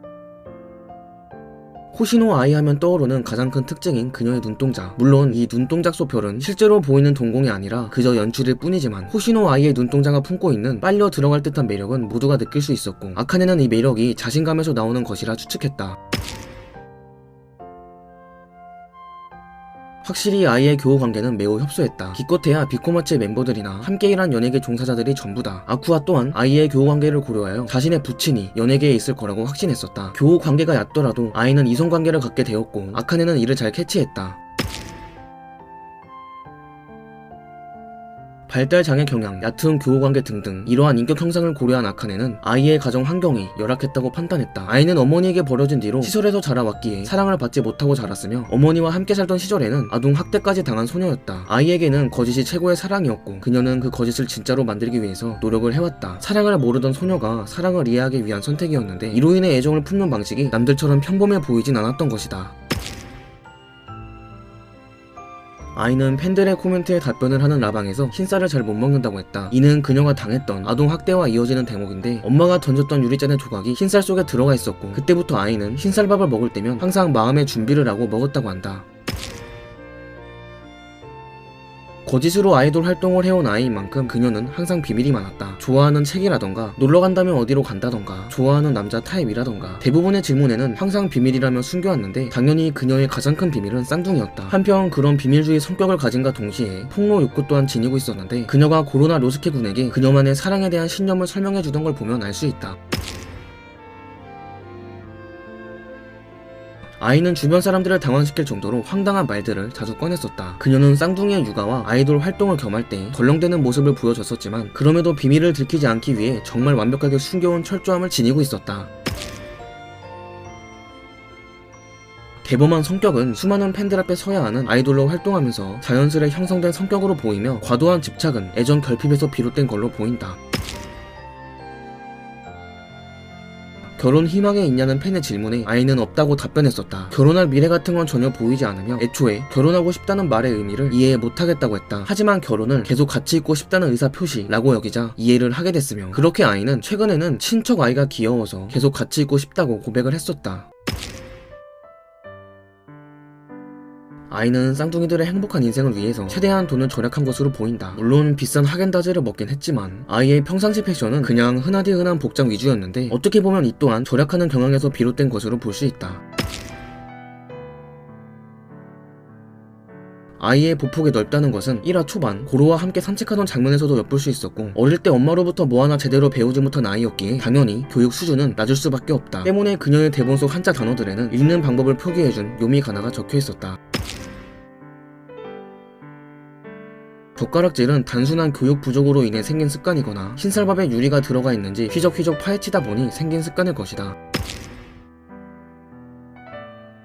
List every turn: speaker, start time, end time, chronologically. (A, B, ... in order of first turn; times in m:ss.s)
0:01.9-0:16.0 A
0:20.0-0:34.4 A
0:38.5-1:02.5 A
1:05.7-1:18.8 A
1:22.0-1:42.8 A
1:47.0-1:58.9 A
2:02.4-2:10.4 A
2:14.0-2:30.7 A
2:34.3-2:46.2 A
2:50.4-3:03.8 A
3:07.4-3:14.2 A